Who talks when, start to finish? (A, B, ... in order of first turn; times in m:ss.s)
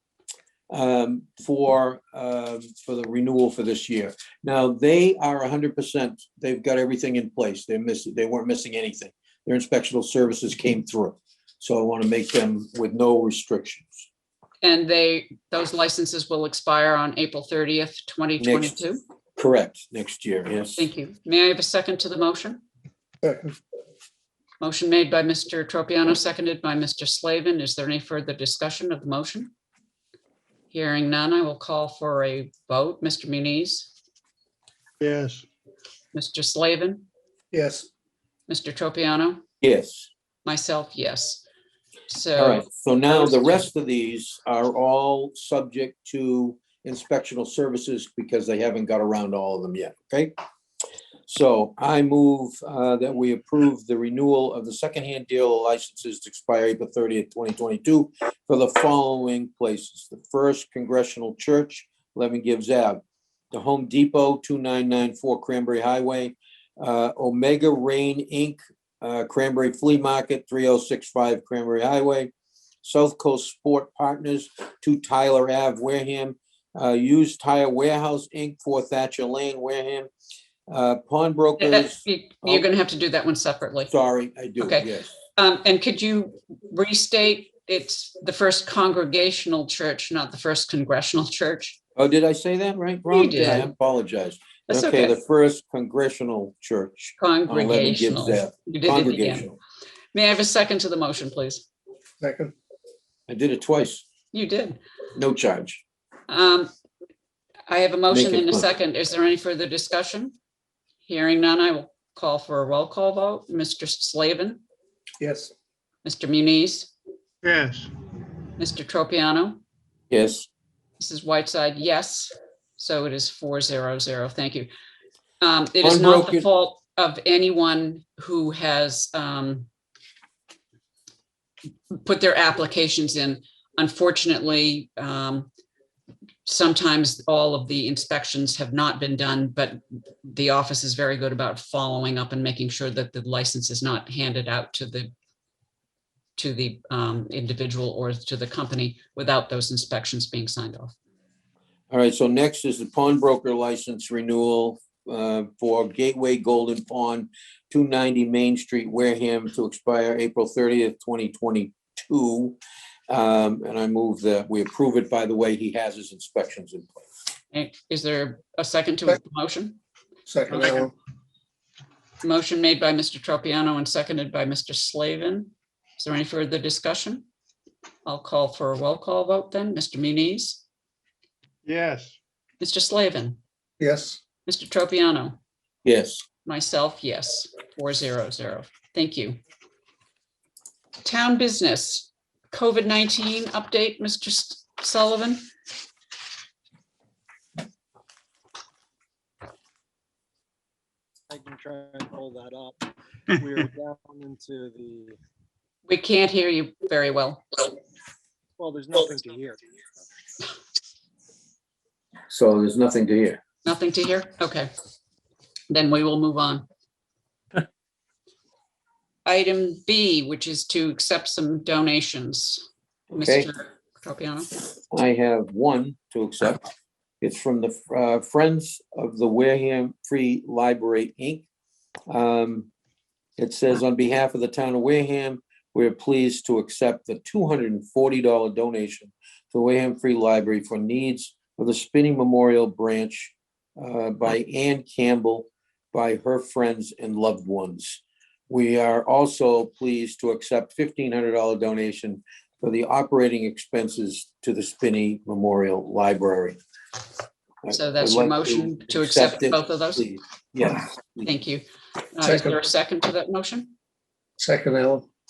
0:00.7-0:14.1 A
0:14.6-0:19.0 B
0:18.4-0:18.8 A
0:19.4-0:20.8 A
0:20.8-0:22.6 B
0:23.2-0:23.6 C
0:24.6-0:29.5 B
0:30.7-0:33.9 B
0:35.0-0:35.4 C
0:36.1-0:37.0 B
0:37.5-0:37.9 C
0:38.5-0:39.4 B
0:39.6-0:40.1 A
0:40.4-0:41.4 B
0:42.1-0:43.6 B
0:42.4-0:50.3 A
0:51.3-1:12.3 A
1:12.8-1:20.1 A
1:20.7-1:22.7 A
1:21.6-1:23.9 B
1:23.9-1:25.2 A
1:24.6-1:31.8 B
1:32.0-1:39.6 A
1:33.1-1:33.7 B
1:34.7-1:35.1 B
1:37.2-1:39.5 B
1:40.1-1:41.6 B
1:42.2-1:42.5 C
1:43.3-1:44.0 A
1:44.3-1:44.8 B
1:45.1-1:45.8 A
1:46.3-1:46.7 B
1:47.7-1:50.3 B
1:48.1-1:48.6 A
1:51.0-1:54.6 B
1:55.2-1:55.5 C
1:56.0-1:56.9 B
1:57.4-1:57.9 C
1:58.6-1:59.6 B
2:00.1-2:00.5 A
2:01.0-2:04.7 B
2:05.4-2:09.7 B
2:05.8-2:06.5 A
2:11.9-2:15.5 B
2:16.4-2:25.1 B
2:26.4-2:30.9 B
2:31.9-2:42.6 A
2:43.1-2:47.0 A
2:47.5-2:49.8 B
2:50.2-2:50.9 C
2:50.5-2:50.9 B
2:52.2-2:57.2 B
2:58.0-3:00.6 B
3:01.6-3:02.2 C
3:02.6-3:03.4 B
3:03.8-3:04.2 C
3:04.5-3:05.4 B
3:05.8-3:06.2 A
3:06.4-3:09.4 B
3:11.0-3:15.4 B
3:21.3-3:25.2 D
3:25.9-3:27.6 B
3:28.6-3:29.6 D
3:32.3-3:33.4 A
3:33.6-3:34.7 B
3:35.7-3:36.6 B
3:39.2-3:44.5 B
3:43.1-3:43.5 A
3:44.9-3:46.6 A
3:47.2-3:51.4 A
3:52.1-3:52.7 A
3:53.4-4:16.6 A
4:17.6-4:21.3 A
4:17.7-4:20.1 B
4:21.2-4:23.7 B
4:22.2-4:22.6 C
4:24.4-4:25.0 C